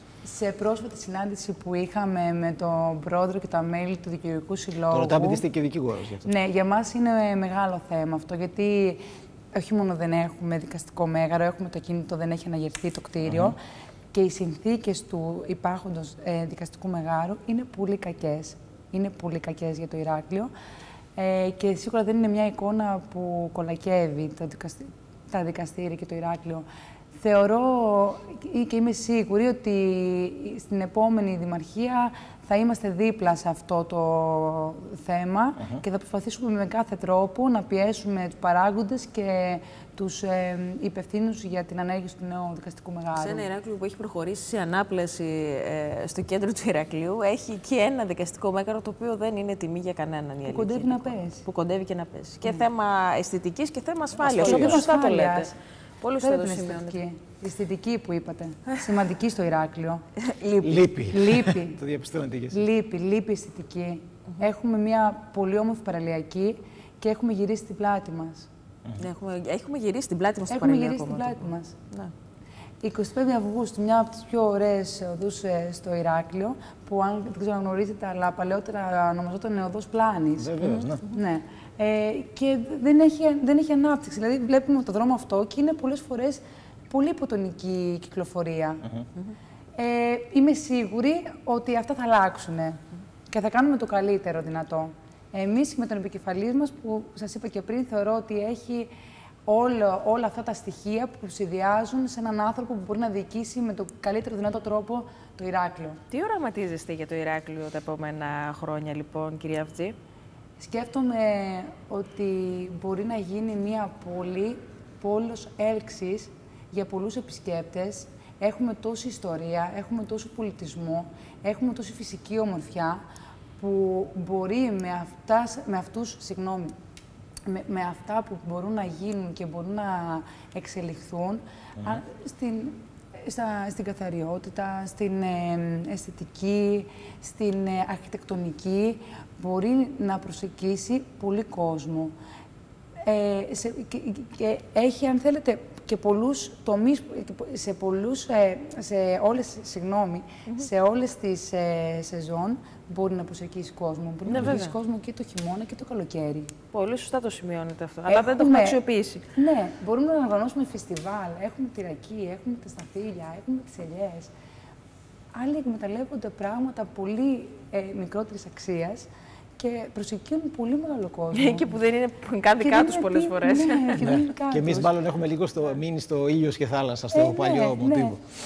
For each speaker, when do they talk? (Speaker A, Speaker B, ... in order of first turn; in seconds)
Speaker A: 0.2-5.4, 6.2-9.0, 9.5-13.6, 14.1-20.5, 21.1-26.6, 27.1-43.4, 50.5-51.4, 54.4-55.5, 56.2-60.0, 61.1-61.8, 62.5-68.5, 70.5-71.7, 72.8-88.8, 89.8-92.8, 93.3-98.9, 99.5-106.0, 110.6-123.0, 123.6-126.7, 127.5-142.1, 143.0-156.5, 158.1-158.8, 159.3-164.3, 165.3-169.1, 169.6-171.8, 172.6-174.9, 177.1-178.2
Speaker B: 4.9-6.3, 13.2-13.5, 54.2-54.8, 60.6-62.6, 80.4-81.1, 174.0-178.2
Speaker C: 43.1-57.0, 60.2-60.8, 69.0-72.1, 80.6-80.9, 106.1-110.0, 154.2-154.7, 156.7-159.2, 171.3-174.1